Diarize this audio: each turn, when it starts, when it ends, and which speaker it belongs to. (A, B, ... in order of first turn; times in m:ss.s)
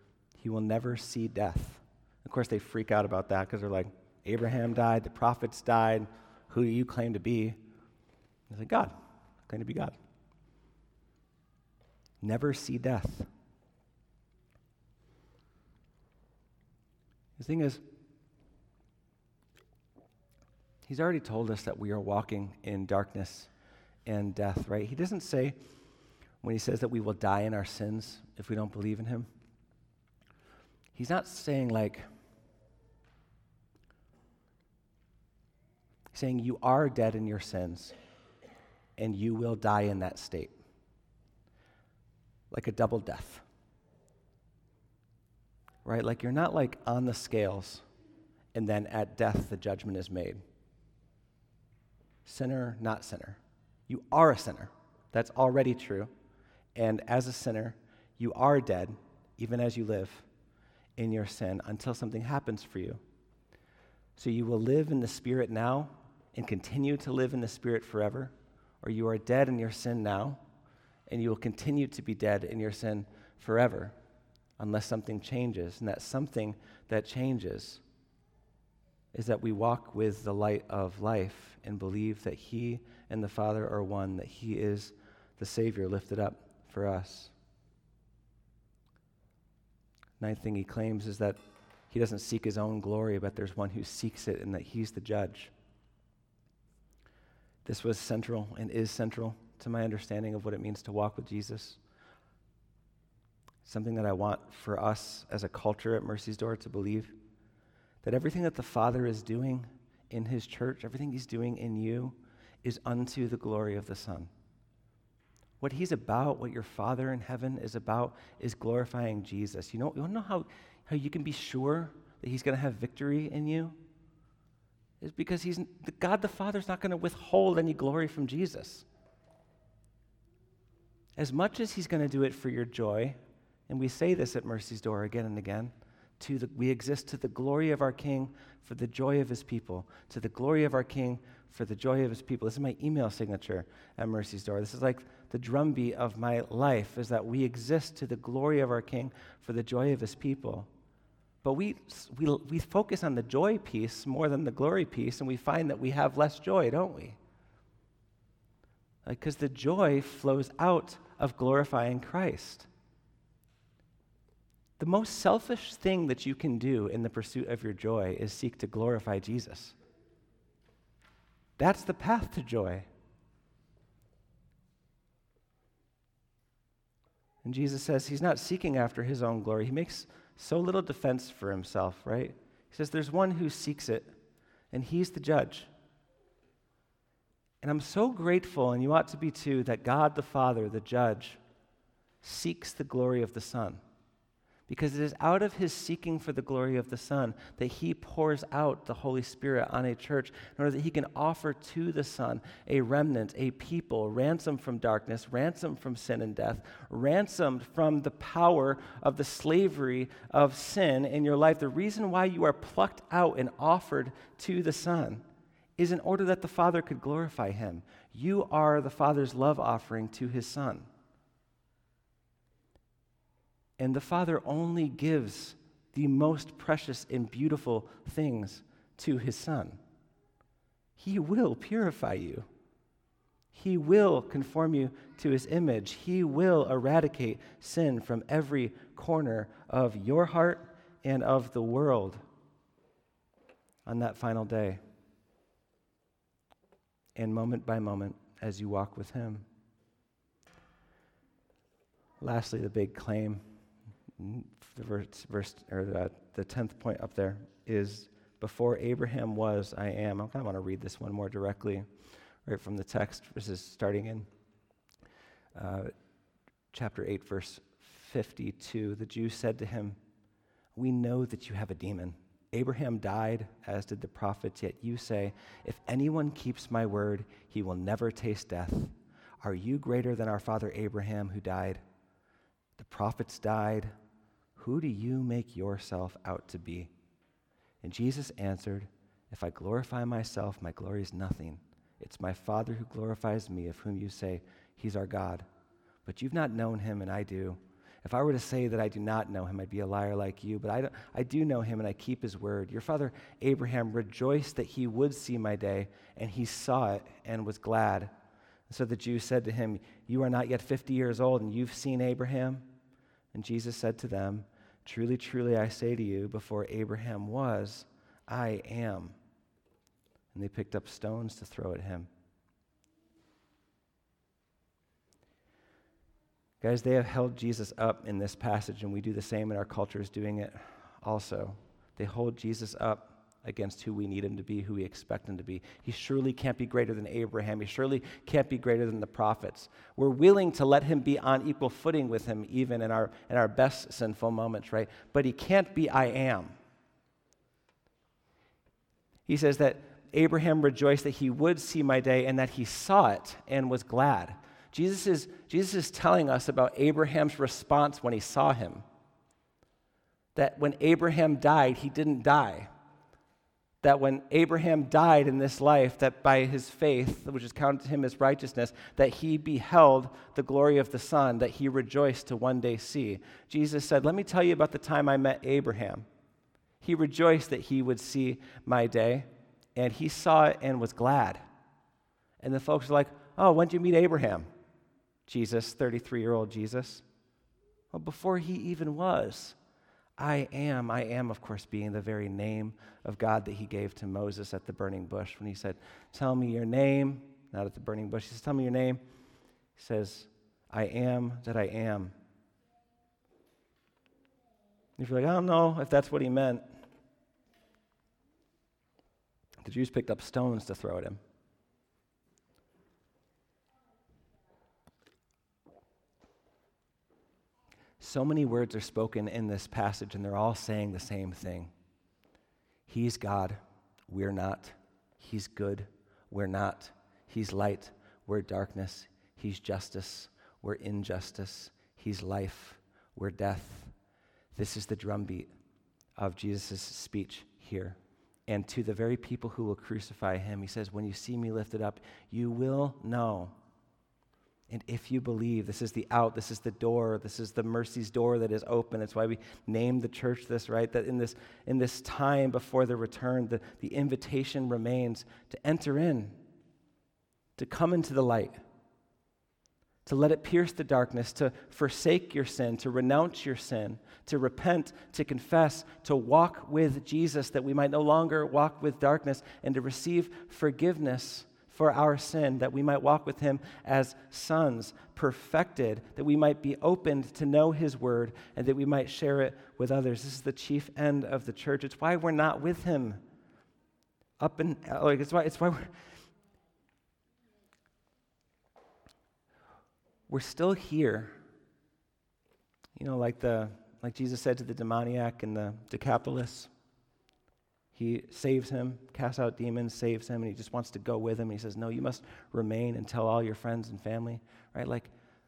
0:00.4-0:07.6 A
0:08.5-0:08.9 A
0:09.5-0:10.0 A
0:12.2-0:13.3 A
0:17.4-0:17.8 A
0:20.9-0:23.5 A
0:24.1-0:25.6 A
0:26.4-0:29.3 A
0:30.9-0:32.1 A
0:36.1-0:38.0 A
0:39.0-0:40.5 A
0:42.5-0:43.4 A
0:45.8-0:47.8 A
0:48.5-0:50.4 A
0:52.2-0:56.1 A
0:56.8-1:00.3 A
1:01.0-1:03.0 A
1:04.2-1:10.4 A
1:11.1-1:13.9 A
1:14.6-1:17.8 A
1:19.1-1:27.3 A
1:30.2-1:31.4 A
1:31.9-1:35.5 A
1:37.6-1:41.8 A
1:43.6-1:47.1 A
1:48.0-1:54.3 A
1:55.6-2:03.8 A
2:05.0-2:08.8 A
2:11.2-2:13.2 A
2:13.7-2:30.7 A
2:31.4-2:37.2 A
2:39.1-2:42.7 A
2:44.8-2:49.7 A
2:51.6-2:52.9 A
2:57.4-3:04.1 A
3:04.7-3:05.7 A
3:07.6-3:11.4 A
3:12.2-3:13.8 A
3:14.7-3:35.2 A
3:35.8-3:40.9 A
3:43.8-3:49.8 A
3:51.0-3:52.5 A
3:53.5-4:02.2 A
4:03.9-4:04.8 A
4:07.2-4:09.4 A
4:12.2-4:13.4 A
4:14.2-4:21.9 A
4:22.5-4:24.3 A
4:25.6-4:25.9 A
4:26.7-4:30.0 A
4:30.8-4:41.8 A
4:42.8-4:43.9 A
4:44.6-4:46.9 A
4:47.8-4:55.4 A
4:56.1-5:08.1 A
5:08.7-5:12.7 A
5:13.3-5:19.1 A
5:20.3-5:22.1 A
5:26.6-5:46.5 A
5:49.3-5:58.8 A
6:00.4-6:02.7 A
6:03.8-6:16.1 A
6:16.8-6:21.4 A
6:22.4-6:24.5 A
6:25.3-6:27.0 A
6:27.9-6:29.6 A
6:30.2-6:39.0 A
6:39.8-6:42.1 A
6:45.0-6:46.6 A
6:49.6-6:51.2 A
6:58.0-7:01.7 A
7:02.9-7:13.9 A
7:14.5-7:15.5 A
7:16.2-7:18.0 A
7:18.5-7:23.5 A
7:24.7-7:36.4 A
7:37.6-7:38.6 A
7:40.0-8:03.2 A
8:04.4-8:05.9 A
8:10.3-8:11.4 A
8:13.0-8:16.7 A
8:18.0-8:25.1 A